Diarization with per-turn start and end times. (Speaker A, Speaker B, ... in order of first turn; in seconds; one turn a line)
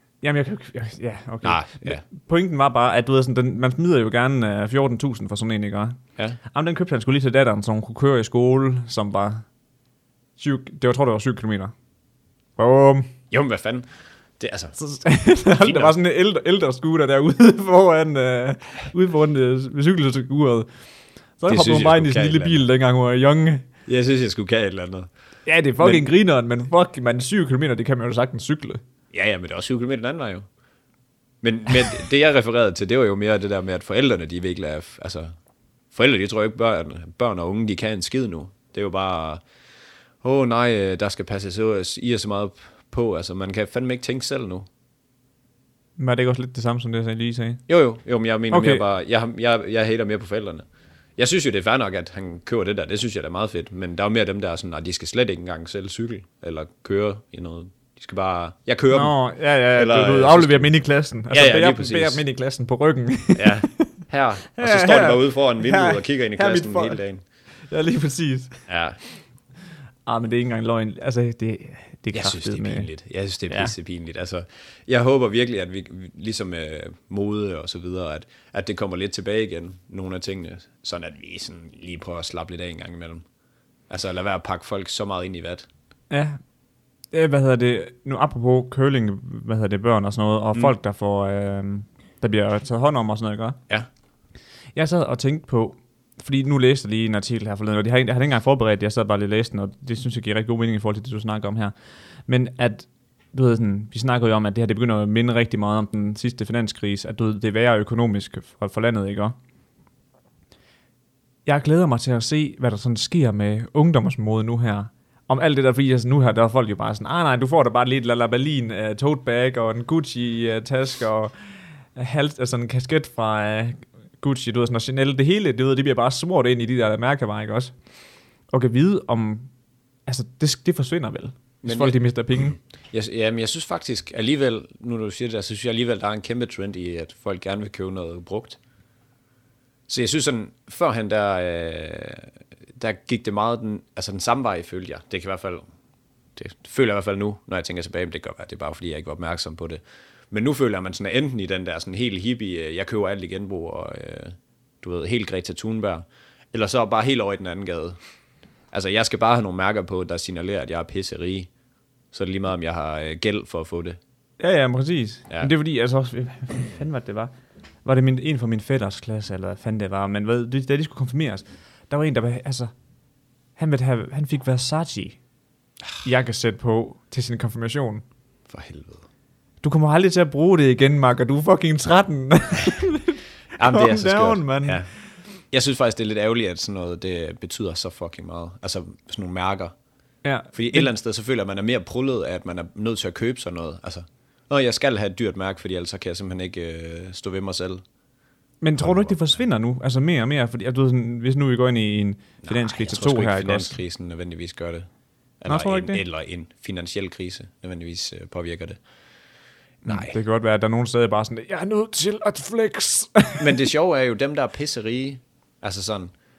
Speaker A: 0.2-6.0
Speaker B: 1.4-2.0
Speaker A: 6.5-9.4
Speaker A: 10.4-11.7
Speaker A: 12.6-13.1
Speaker B: 13.3-13.9
Speaker B: 14.4-14.8
Speaker A: 14.8-20.7
Speaker B: 15.6-15.9
Speaker A: 21.4-23.6
Speaker B: 21.5-22.6
Speaker B: 23.9-25.1
Speaker A: 25.4-28.8
Speaker B: 25.8-26.0
Speaker B: 29.1-30.4
Speaker B: 31.4-35.3
Speaker B: 35.9-39.4
Speaker B: 40.2-44.7
Speaker A: 46.0-47.6
Speaker B: 47.7-50.6
Speaker A: 48.5-48.8
Speaker B: 51.2-59.1
Speaker A: 58.9-64.0
Speaker B: 59.7-60.7
Speaker B: 61.3-62.2
Speaker B: 63.4-67.2
Speaker A: 64.5-67.0
Speaker A: 67.7-68.6
Speaker B: 68.7-69.0
Speaker A: 70.0-72.9
Speaker B: 72.1-83.2
Speaker B: 83.9-85.7
Speaker A: 86.1-86.4
Speaker A: 87.1-93.6
Speaker A: 94.8-101.7
Speaker A: 102.3-109.3
Speaker A: 111.5-121.3
Speaker A: 121.9-127.7
Speaker A: 128.5-129.5
Speaker A: 130.1-132.6
Speaker B: 131.6-138.6
Speaker B: 139.9-145.7
Speaker B: 146.3-158.0
Speaker B: 158.7-161.5
Speaker B: 162.1-164.0
Speaker A: 164.4-167.3
Speaker A: 167.8-172.7
Speaker A: 173.6-175.2
Speaker A: 176.0-178.0
Speaker B: 178.5-179.0
Speaker A: 179.6-184.8
Speaker B: 183.6-184.9
Speaker B: 185.5-189.7
Speaker A: 190.2-190.9
Speaker B: 190.5-197.8
Speaker A: 198.6-203.8
Speaker B: 198.8-199.3
Speaker B: 202.4-204.9
Speaker B: 205.4-208.8
Speaker A: 205.5-206.0
Speaker B: 209.8-210.1
Speaker A: 209.8-213.6
Speaker B: 213.4-216.1